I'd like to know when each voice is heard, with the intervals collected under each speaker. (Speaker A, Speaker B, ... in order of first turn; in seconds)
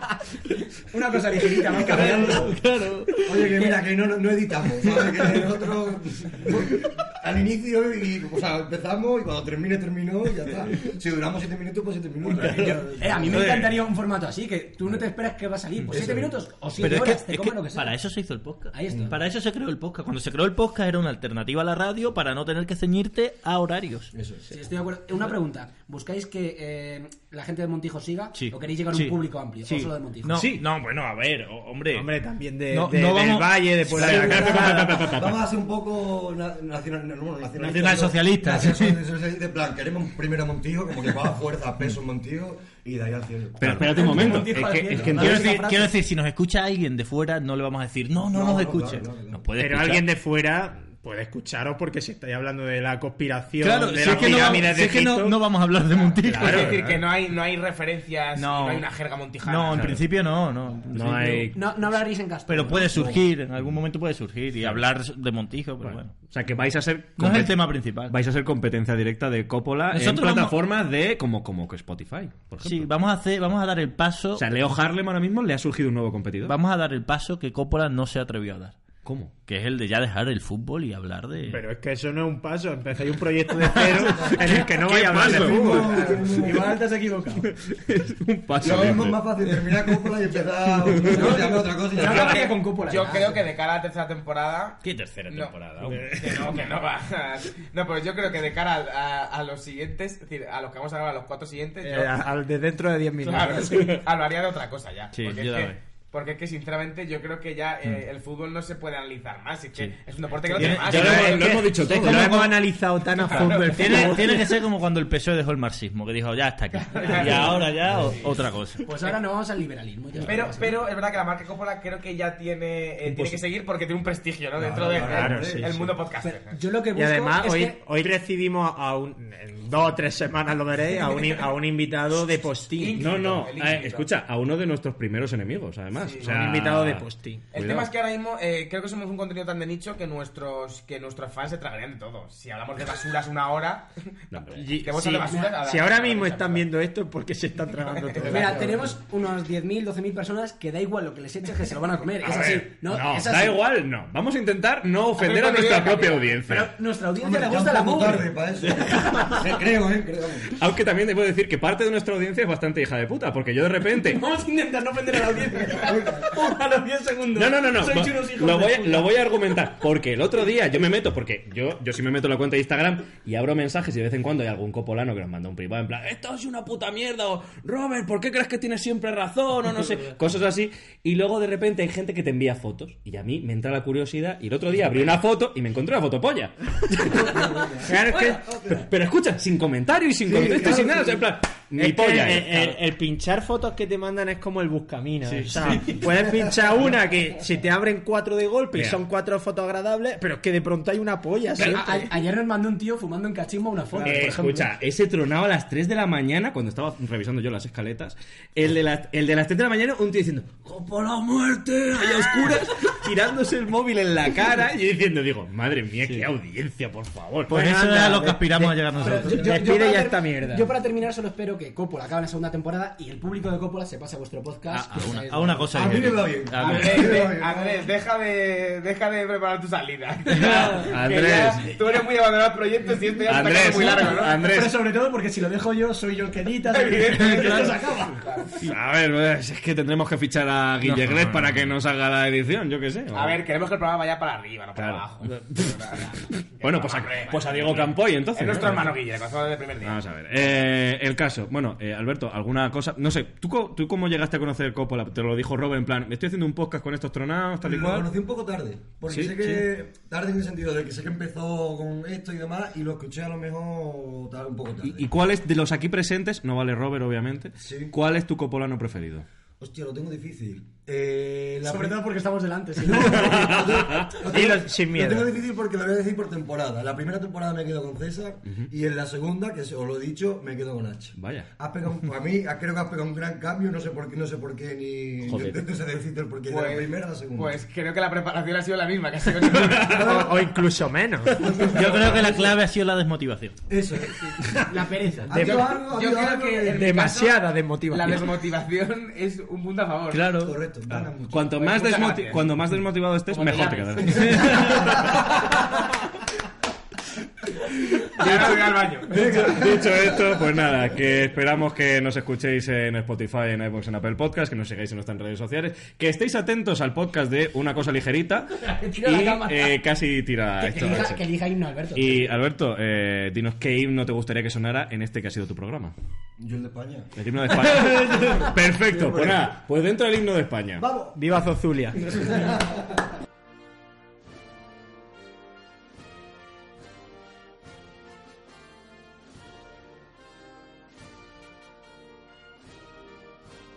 Speaker A: 0.9-2.6, 12.4-18.0, 18.7-19.2, 24.5-30.5, 44.0-45.9, 61.5-63.1, 91.1-93.4, 118.8-120.8, 126.2-127.8, 145.2-145.6, 148.2-153.7, 156.5-158.3, 159.0-159.4, 164.1-168.4, 201.6-204.7, 219.0-226.1, 271.6-273.5, 294.7-295.8, 318.7-319.8, 320.6-322.4
Speaker B: 1.7-3.5, 16.8-24.1, 28.3-32.1, 32.7-34.9, 37.6-39.0, 45.0-50.0, 53.6-56.9, 58.4-58.9, 59.4-61.6, 62.5-66.2, 67.2-68.2, 69.9-70.5, 72.6-74.5, 76.5-78.8, 79.5-81.6, 83.8-84.3, 94.8-96.5, 105.1-105.8, 110.5-112.3, 113.6-119.0, 125.1-125.7, 217.5-219.4, 224.8-227.2, 237.1-237.7, 240.8-241.4, 291.7-293.6, 300.1-300.6, 304.3-304.8
Speaker C: 1.8-2.5, 3.2-13.8, 15.9-16.4, 18.9-19.2, 24.1-24.5, 34.0-44.4, 44.9-45.3, 48.3-49.5, 62.7-63.2, 84.1-84.5, 85.1-86.8, 88.6-92.5, 117.9-118.1, 124.5-125.8, 148.3-148.9, 157.1-160.6, 187.0-188.9, 190.3-191.2, 196.1-196.7, 219.0-219.7, 225.7-227.9, 257.6-265.1, 267.6-267.9, 269.6-272.1, 272.8-287.5, 289.8-290.4, 291.3-292.6, 293.7-296.9, 300.4-301.6, 309.1-310.3, 326.4-327.1, 327.9-329.5, 330.8-331.2, 332.1-332.6
Speaker D: 30.4-30.6, 33.9-35.4, 43.6-45.6, 54.0-54.8, 56.4-57.0, 59.7-60.1, 60.9-61.7, 64.6-64.8, 65.8-72.9, 74.4-76.6, 79.0-79.3, 84.4-86.1, 87.4-89.2, 95.4-96.0, 103.7-104.0, 110.6-112.7, 123.0-123.4, 132.9-137.9, 144.3-144.6, 152.2-156.7, 160.5-164.2, 167.3-187.0, 188.7-192.8, 195.3-196.1, 198.7-199.0, 204.0-217.6, 224.7-225.0, 230.6-231.7, 233.3-234.8, 238.6-243.4, 244.8-245.8, 246.6-249.0, 249.8-258.1, 259.1-259.6, 264.8-269.3, 273.2-274.1, 281.2-281.5, 285.3-285.6, 301.0-305.3, 308.2-321.2, 321.9-325.9, 327.2-330.9
Speaker E: 31.9-35.0, 49.6-55.4, 81.5-87.5, 101.8-104.0, 111.0-114.6, 125.1-125.3, 127.0-133.1, 136.2-137.4, 144.6-148.8, 167.7-168.9, 187.8-188.6, 190.3-191.0, 191.8-202.1, 217.5-220.7, 230.3-230.6, 234.4-238.2, 274.2-275.3, 289.8-291.4, 295.3-295.7, 296.7-298.3, 331.1-332.2
Speaker F: 56.3-60.0, 92.0-102.2, 103.2-111.6, 113.2-114.3, 116.7-118.3, 120.2-126.6, 132.8-134.1, 136.0-136.3, 137.5-144.1, 144.7-146.7, 147.9-148.6, 155.2-156.4, 226.6-234.5, 236.7-238.6, 243.1-250.0, 286.5-290.2, 295.3-300.3, 301.6-302.5, 303.3-304.5, 308.1-309.7